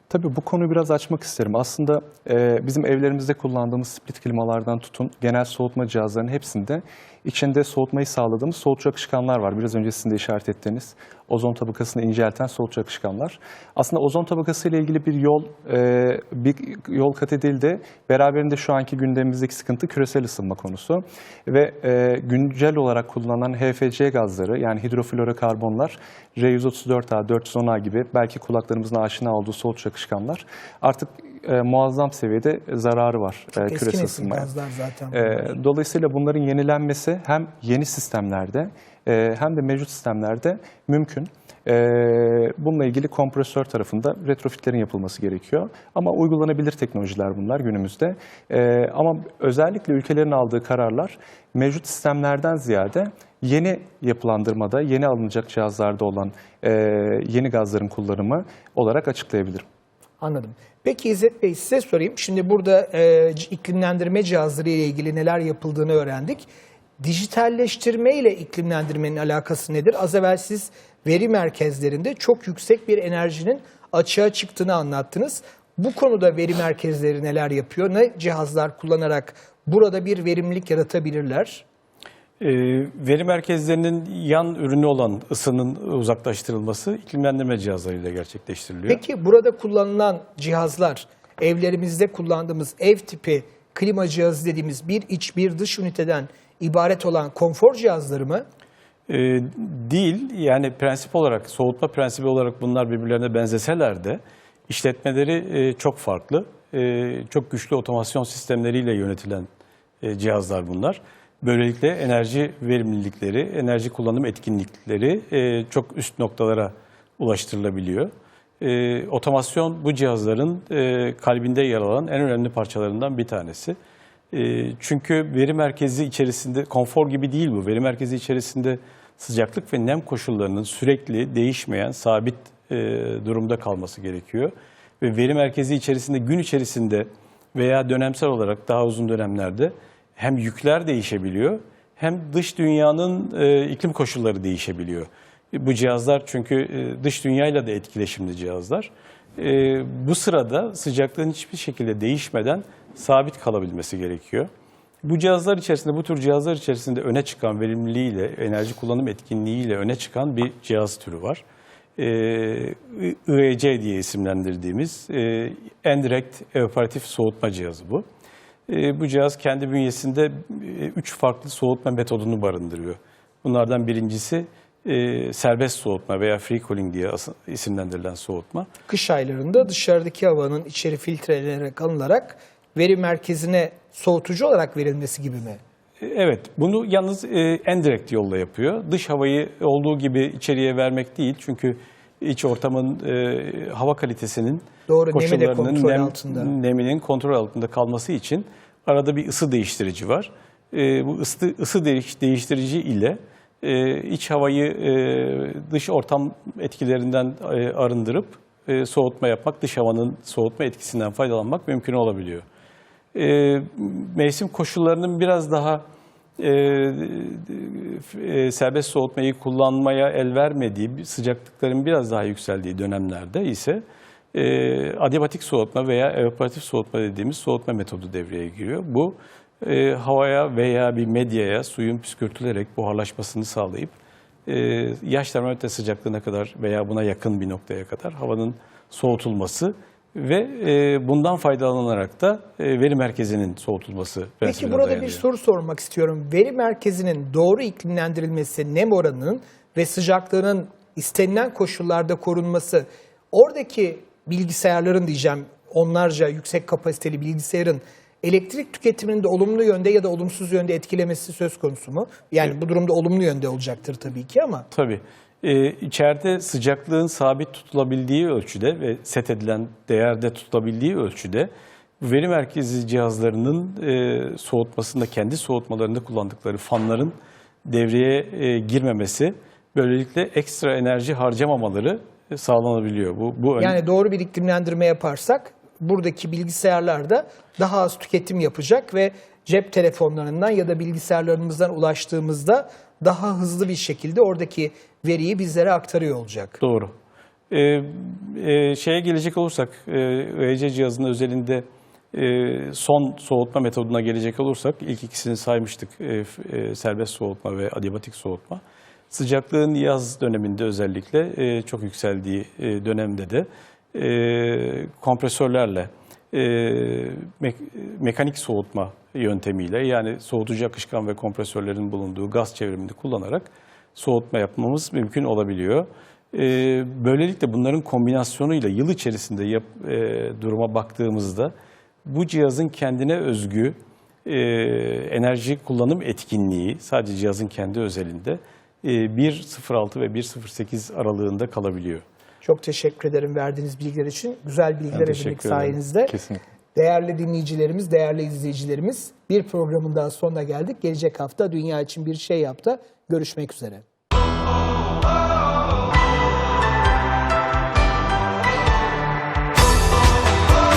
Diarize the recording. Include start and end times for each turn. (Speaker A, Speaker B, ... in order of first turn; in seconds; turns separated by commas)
Speaker A: 0.1-34.5, Speaker B: 33.5-35.5, Speaker A: 35.1-59.6, Speaker B: 60.2-66.5, Speaker B: 67.0-81.6, Speaker C: 82.4-89.0, Speaker B: 88.9-98.5, Speaker C: 99.1-109.5, Speaker C: 110.0-123.8, Speaker C: 124.3-154.5, Speaker C: 155.0-161.4, Speaker C: 162.0-168.1, Speaker C: 168.7-178.7, Speaker B: 178.9-185.6, Speaker C: 186.0-212.4, Speaker B: 194.9-196.5, Speaker C: 213.1-215.8, Speaker C: 216.4-223.8, Speaker C: 224.3-233.9, Speaker C: 234.5-245.2, Speaker B: 244.4-264.7, Speaker C: 264.7-271.5, Speaker C: 272.0-283.8, Speaker B: 283.6-296.6, Speaker C: 296.6-296.9, Speaker C: 297.5-331.5, Speaker C: 332.1-342.0, Speaker B: 342.4-346.1, Speaker C: 344.9-345.8, Speaker B: 346.8-353.8